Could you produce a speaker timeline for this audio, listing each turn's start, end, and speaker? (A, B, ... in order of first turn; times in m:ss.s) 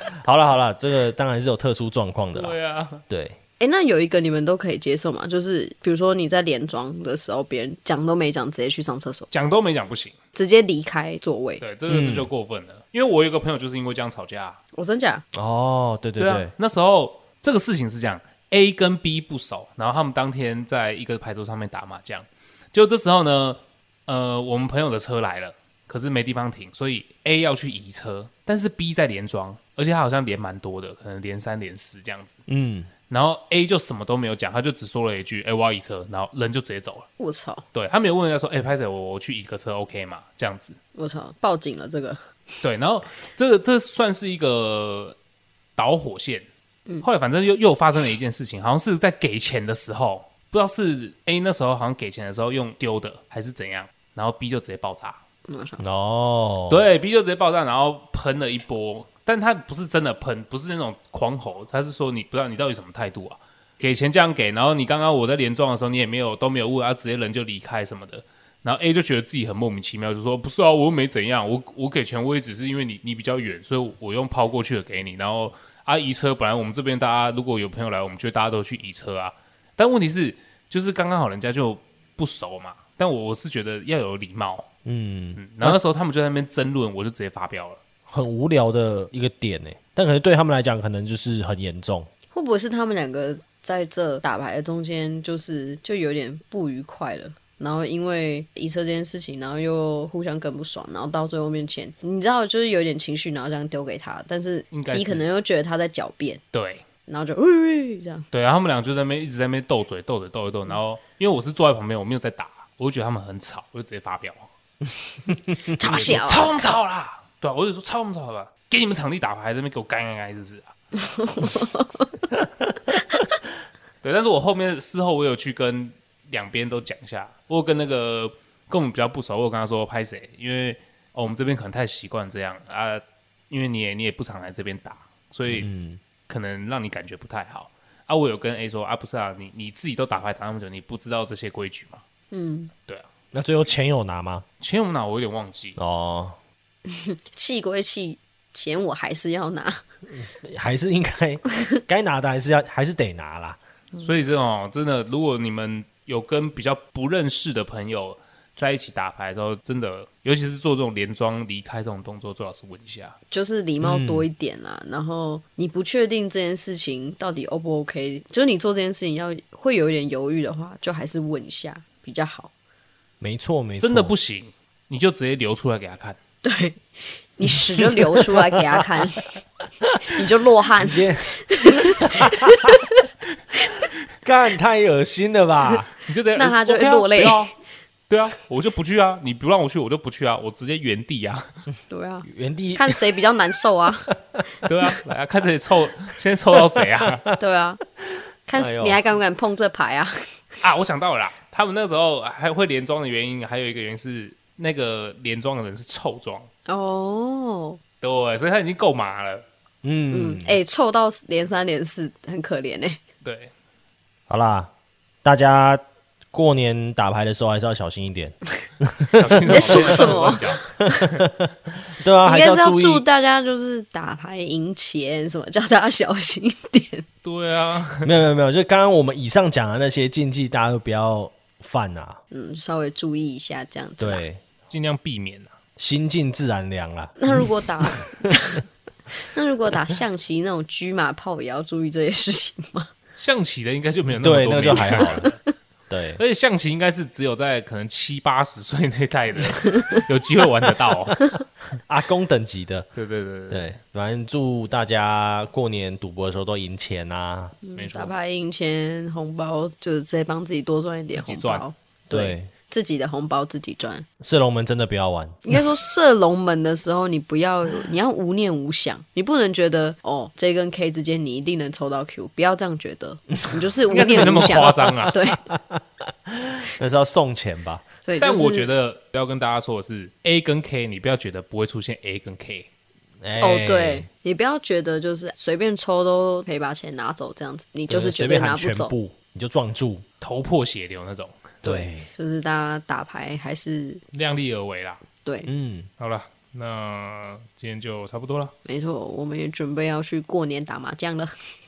0:00.2-0:02.5 A
0:02.3-0:03.0 B
0:03.1-0:03.4 A
0:03.6-0:09.3 C
0:09.3-0:10.2 B
0:10.3-0:11.6 C
0:11.6-0:14.6 B
0:11.9-0:12.3 A
0:14.7-0:15.2 C
0:15.3-0:16.5 A
0:16.2-0:32.4 B
0:32.5-0:32.9 A
0:33.1-0:37.1 B
0:37.2-0:37.6 C
0:37.7-0:40.8 B
0:41.0-0:42.2 C
0:42.6-0:45.2 B
0:45.8-0:46.4 B
0:47.0-0:55.2 B
0:55.5-0:55.8 C
0:55.8-0:56.8 A
0:56.7-1:24.7 B
1:24.8-1:25.8 A
1:25.4-1:27.8 B
1:28.1-1:32.1 A
1:32.3-1:46.4 C
1:44.7-1:45.2 B
1:46.5-1:46.8 B
1:47.1-1:48.3 C
1:48.3-1:54.5 B
1:55.7-1:56.5 C
1:55.8-2:00.7 B
2:01.2-2:01.9 C
2:04.0-2:15.7 B
2:15.5-2:16.0 A
2:16.3-2:22.0 B
2:22.3-2:22.7 C
2:23.3-2:24.4 A
2:24.6-2:25.8 B
2:25.8-2:26.4 A
2:26.8-2:29.8 C
2:30.1-2:33.6 A
2:34.0-2:43.1 B
2:43.3-2:52.5 C
2:43.8-2:44.3 A
2:53.2-2:54.1 A
2:53.8-2:56.2 B
2:56.4-2:56.8 C
2:57.4-2:59.3 C
2:57.5-2:59.1 A
3:00.1-3:02.7 C
3:00.7-3:02.8 A
3:04.2-3:05.9 A
3:06.0-3:07.5 B
3:06.3-3:07.5 C
3:08.1-3:11.5 B
3:11.9-3:14.1 C
3:12.2-3:13.2 A
3:14.6-3:17.2 B
3:17.0-3:17.3 A
3:17.4-3:17.8 C
3:18.1-3:19.0 A
3:18.5-3:20.2 C
3:20.6-3:26.5 B
3:26.7-3:27.8 C
3:28.0-3:29.4 B
3:29.8-3:30.6 A
3:30.1-3:33.0 C
3:33.2-3:33.5 B
3:34.3-3:34.7 A
3:35.2-3:40.3 A
3:39.1-3:41.2 B
3:39.5-3:41.1 C
3:40.9-3:43.0 A
3:42.2-3:47.0 C
3:47.2-3:48.1 B
3:48.0-3:52.2 A
3:52.3-3:54.2 C
3:54.0-3:54.4 A
3:54.7-3:55.5 B
3:55.8-3:58.3 A
3:57.2-3:58.6 C
3:59.2-4:02.9 C
4:03.2-4:05.4 B
4:04.2-4:05.3 A
4:04.8-4:05.3 C
4:05.9-4:06.2 A
4:06.2-4:11.2 B
4:11.9-4:12.9 A
4:12.9-4:13.7 B
4:13.5-4:17.6 A
4:17.6-4:24.0 C
4:17.8-4:18.1 B
4:21.1-4:21.6 B
4:22.1-4:22.5 A
4:24.2-4:25.7 A
4:25.4-4:35.4 C
4:33.9-4:35.2 B
4:35.5-4:37.8 A
4:38.0-4:38.7 C
4:38.2-4:42.7 B
4:43.2-4:44.1 A
4:43.4-4:48.9 C
4:47.9-4:50.0 A
4:50.2-4:51.6 B
4:51.6-4:52.1 A
4:51.6-4:54.0 C
4:54.1-4:55.0 B
4:55.2-4:55.5 C
4:55.5-4:55.9 A
4:56.0-4:58.5 B
4:58.6-5:01.3 C